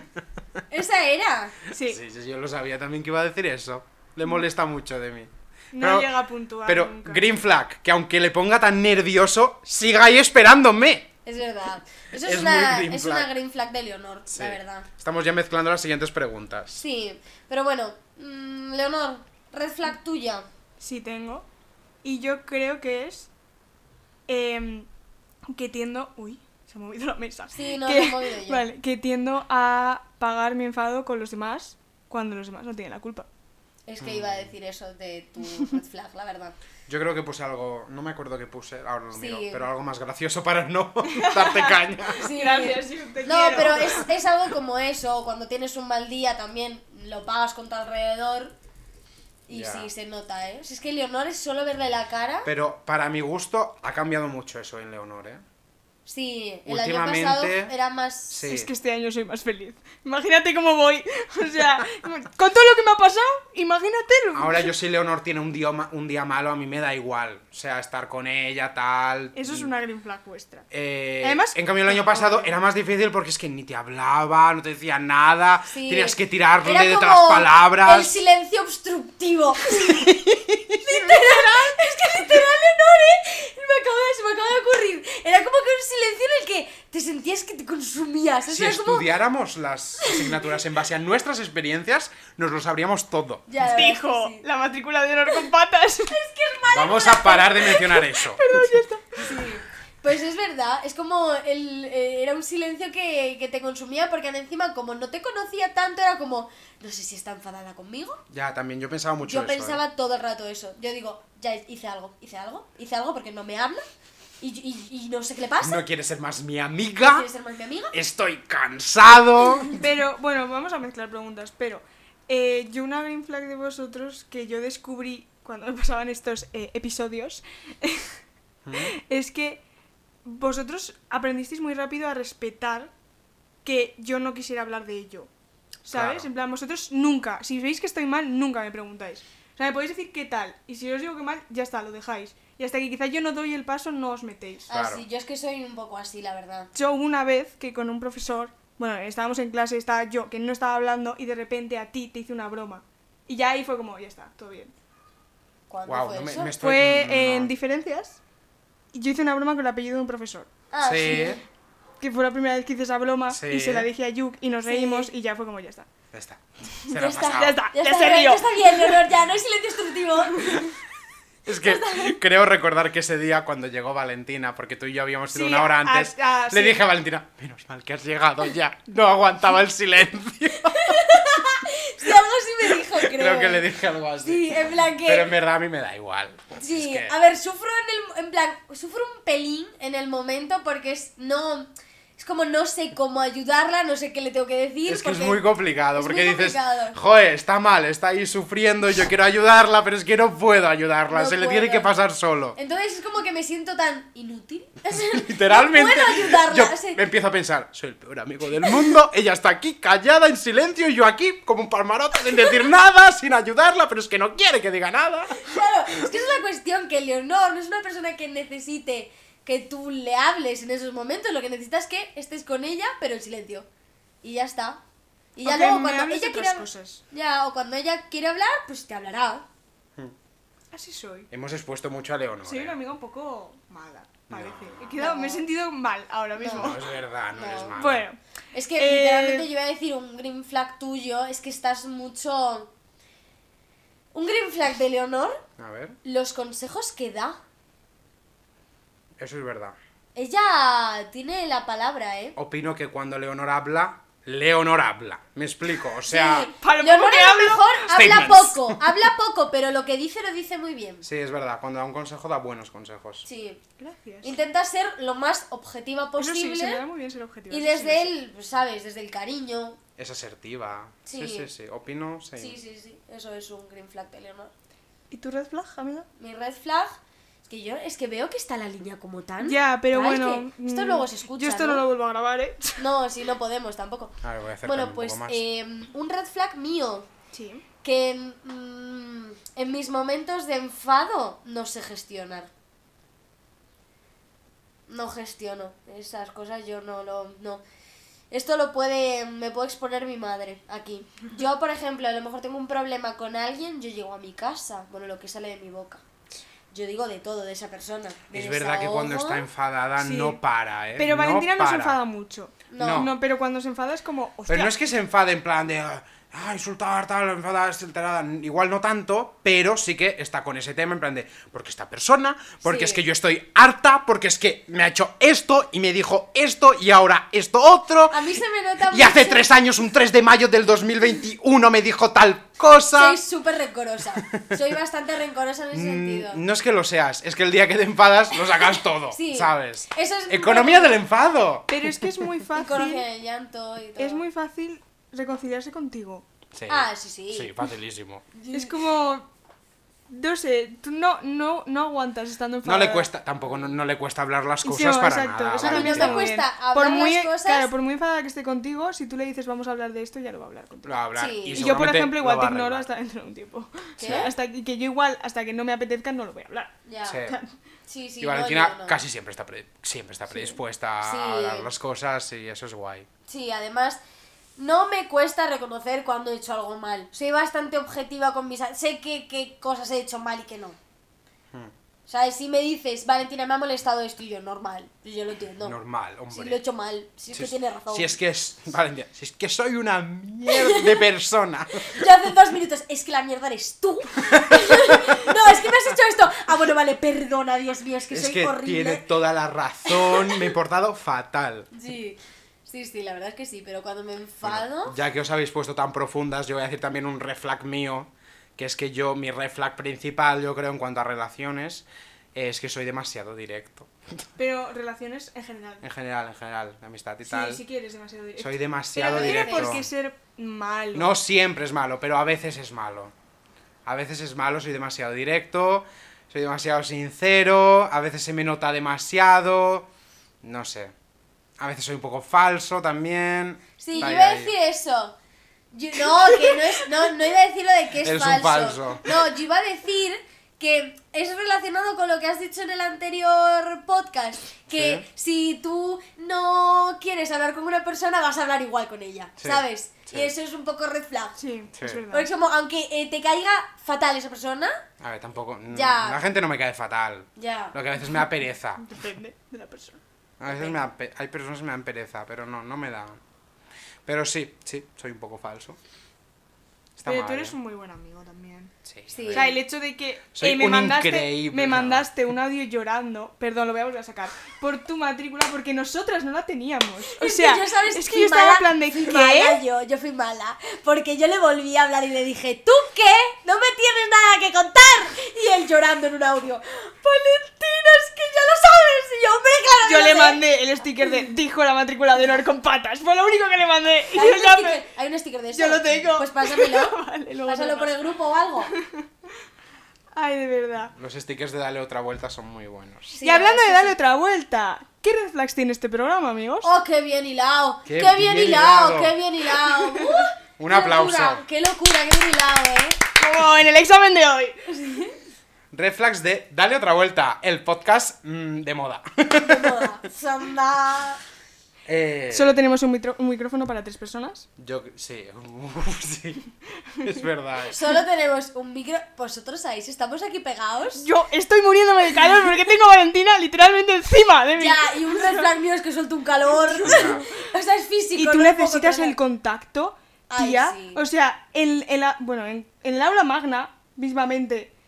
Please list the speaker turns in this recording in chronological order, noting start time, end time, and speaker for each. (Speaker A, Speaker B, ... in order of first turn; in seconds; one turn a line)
Speaker A: 0.7-1.6
Speaker B: 1.7-2.0
Speaker C: 1.8-6.1
Speaker B: 5.7-7.2
Speaker C: 6.6-11.1
Speaker A: 11.2-14.9
Speaker C: 12.2-13.3
Speaker C: 14.3-16.8
Speaker A: 16.8-20.5
Speaker B: 20.8-21.4
Speaker B: 22.0-23.3
Speaker B: 24.3-24.9
Speaker B: 25.5-33.3
Speaker A: 27.5-28.6
Speaker A: 33.9-36.5
Speaker C: 34.0-34.5
Speaker C: 36.9-42.2
Speaker A: 39.1-39.7
Speaker B: 41.1-44.0
Speaker A: 42.2-48.5
Speaker A: 49.5-52.5
Speaker C: 49.5-49.9
Speaker C: 52.4-55.4
Speaker A: 56.0-58.5
Speaker C: 56.7-57.7
Speaker C: 58.3-58.7
Speaker B: 58.4-64.7
Speaker C: 64.3-69.7
Speaker B: 69.3-70.7
Speaker C: 70.7-78.2
Speaker B: 71.2-72.5
Speaker A: 75.7-79.9
Speaker C: 79.8-80.8
Speaker A: 80.8-89.1
Speaker B: 81.0-81.8
Speaker C: 88.5-93.4
Speaker A: 90.0-90.5
Speaker A: 93.5-94.4
Speaker B: 93.6-96.1
Speaker A: 96.1-98.0
Speaker C: 96.7-98.4
Speaker B: 98.2-99.3
Speaker A: 99.2-108.2
Speaker C: 108.3-109.8
Speaker A: 109.2-113.8
Speaker A: 114.4-115.8
Speaker C: 115.6-117.2
Speaker A: 117.0-117.9
Speaker C: 117.9-119.8
Speaker B: 119.8-128.2
Speaker C: 128.7-128.9
Speaker B: 128.9-129.6
Speaker B: 130.2-132.9
Speaker B: 133.6-135.3
Speaker B: 135.8-144.7
Speaker C: 135.9-136.3
Speaker A: 144.7-146.7
Speaker C: 144.7-145.0
Speaker B: 146.7-154.7
Speaker A: 155.7-156.5
Speaker C: 155.8-157.5
Speaker B: 156.6-158.2
Speaker B: 158.9-160.5
Speaker A: 160.7-161.4
Speaker C: 160.8-161.4
Speaker B: 162.0-165.9
Speaker C: 163.3-163.9
Speaker A: 164.7-165.1
Speaker C: 166.1-167.6
Speaker A: 166.9-170.6
Speaker B: 167.3-168.9
Speaker C: 171.4-181.0
Speaker A: 171.6-172.2
Speaker B: 175.3-176.8
Speaker A: 180.8-183.7
Speaker C: 182.9-187.1
Speaker A: 184.2-185.3
Speaker A: 186.6-195.4
Speaker C: 194.9-202.6
Speaker A: 195.9-197.0
Speaker A: 201.1-201.9
Speaker A: 202.6-207.0
Speaker C: 205.1-215.5
Speaker A: 208.6-208.9
Speaker A: 215.4-223.7
Speaker A: 224.2-224.8
Speaker A: 225.3-229.4
Speaker B: 225.4-227.0
Speaker B: 230.7-231.3
Speaker C: 231.3-232.8
Speaker B: 232.4-236.8
Speaker C: 234.3-234.8
Speaker A: 235.0-235.4
Speaker A: 236.4-236.8
Speaker C: 236.5-238.1
Speaker A: 237.3-237.8
Speaker B: 237.8-238.2
Speaker A: 238.5-242.7
Speaker B: 238.8-239.5
Speaker A: 244.1-245.4
Speaker C: 245.6-246.0
Speaker A: 246.0-247.4
Speaker C: 249.2-249.8
Speaker A: 250.1-252.3
Speaker C: 252.3-256.5
Speaker A: 256.1-261.0
Speaker B: 256.6-257.9
Speaker C: 257.9-258.8
Speaker C: 261.0-263.3
Speaker A: 263.2-263.6
Speaker B: 263.8-264.3
Speaker A: 264.2-266.8
Speaker B: 266.2-268.1
Speaker A: 267.5-269.8
Speaker C: 270.0-272.5
Speaker A: 271.1-271.5
Speaker A: 272.4-274.5
Speaker B: 275.1-276.1
Speaker A: 276.2-281.9
Speaker B: 279.4-282.8
Speaker A: 282.8-287.1
Speaker C: 284.2-285.4
Speaker B: 287.3-287.6
Speaker A: 287.8-292.5
Speaker A: 294.9-297.6
Speaker A: 298.3-306.0
Speaker A: 306.7-309.5
Speaker C: 308.3-312.0
Speaker B: 310.0-310.4
Speaker B: 310.9-314.7
Speaker A: 312.7-313.1
Speaker C: 312.8-313.1
Speaker C: 314.5-328.2
Speaker A: 322.6-323.0
Speaker A: 328.1-329.5
Speaker C: 328.9-333.2
Speaker A: 332.9-336.4
Speaker C: 335.7-342.0
Speaker A: 339.1-341.0
Speaker B: 341.7-343.0
Speaker A: 342.6-344.2
Speaker B: 344.0-346.2
Speaker C: 346.5-348.2
Speaker A: 346.7-347.5
Speaker A: 348.3-348.8
Speaker B: 348.5-349.3
Speaker B: 350.1-353.1
Speaker C: 352.6-356.3
Speaker B: 354.6-361.0
Speaker A: 355.6-357.7
Speaker C: 360.8-362.9
Speaker A: 361.1-361.6
Speaker B: 361.5-366.7
Speaker A: 364.0-364.3
Speaker C: 364.0-364.3
Speaker A: 366.9-367.2
Speaker C: 367.1-367.4
Speaker B: 367.2-367.5
Speaker A: 367.9-369.0
Speaker C: 368.2-373.1
Speaker A: 370.3-371.7
Speaker A: 373.3-374.0
Speaker A: 374.6-380.8
Speaker A: 382.1-385.8
Speaker C: 385.6-386.6
Speaker A: 386.3-388.1
Speaker C: 387.3-392.0
Speaker A: 390.5-391.1
Speaker A: 391.9-399.0
Speaker C: 394.3-395.1
Speaker C: 398.1-401.7
Speaker A: 399.9-400.5
Speaker A: 401.7-404.9
Speaker C: 404.4-414.2
Speaker B: 414.4-415.8
Speaker C: 415.8-417.6
Speaker B: 417.2-421.1
Speaker C: 418.4-419.9
Speaker A: 419.0-419.8
Speaker C: 420.9-423.1
Speaker C: 423.9-429.9
Speaker C: 430.4-430.9
Speaker C: 431.6-434.5
Speaker A: 433.8-435.1
Speaker A: 435.7-451.4
Speaker C: 438.0-439.0
Speaker C: 444.7-445.0
Speaker C: 449.4-450.3
Speaker B: 451.4-452.3
Speaker C: 451.8-452.0
Speaker A: 452.1-454.7
Speaker C: 455.0-458.8
Speaker A: 455.7-456.2
Speaker A: 457.4-457.8
Speaker B: 458.8-460.0
Speaker C: 460.4-463.2
Speaker A: 460.5-460.9
Speaker C: 464.1-465.8
Speaker C: 467.0-467.6
Speaker B: 467.0-468.7
Speaker C: 468.8-469.6
Speaker A: 469.1-469.6
Speaker B: 469.3-479.6
Speaker C: 470.3-472.1
Speaker A: 477.2-490.4
Speaker B: 489.8-494.8
Speaker A: 494.1-498.7
Speaker B: 495.5-497.9
Speaker B: 500.1-500.9
Speaker C: 500.9-503.2
Speaker A: 503.1-503.9
Speaker B: 503.2-506.7
Speaker A: 506.6-513.0
Speaker C: 507.9-509.1
Speaker C: 510.6-511.4
Speaker B: 513.2-514.6
Speaker A: 514.7-515.1
Speaker C: 515.7-519.8
Speaker A: 519.4-521.2
Speaker C: 521.9-522.6
Speaker B: 522.3-524.5
Speaker C: 524.6-526.4
Speaker C: 527.0-527.8
Speaker A: 527.7-531.0
Speaker B: 531.0-535.5
Speaker A: 534.6-539.2
Speaker B: 536.6-537.3
Speaker C: 536.8-537.2
Speaker B: 538.1-544.7
Speaker A: 540.3-541.0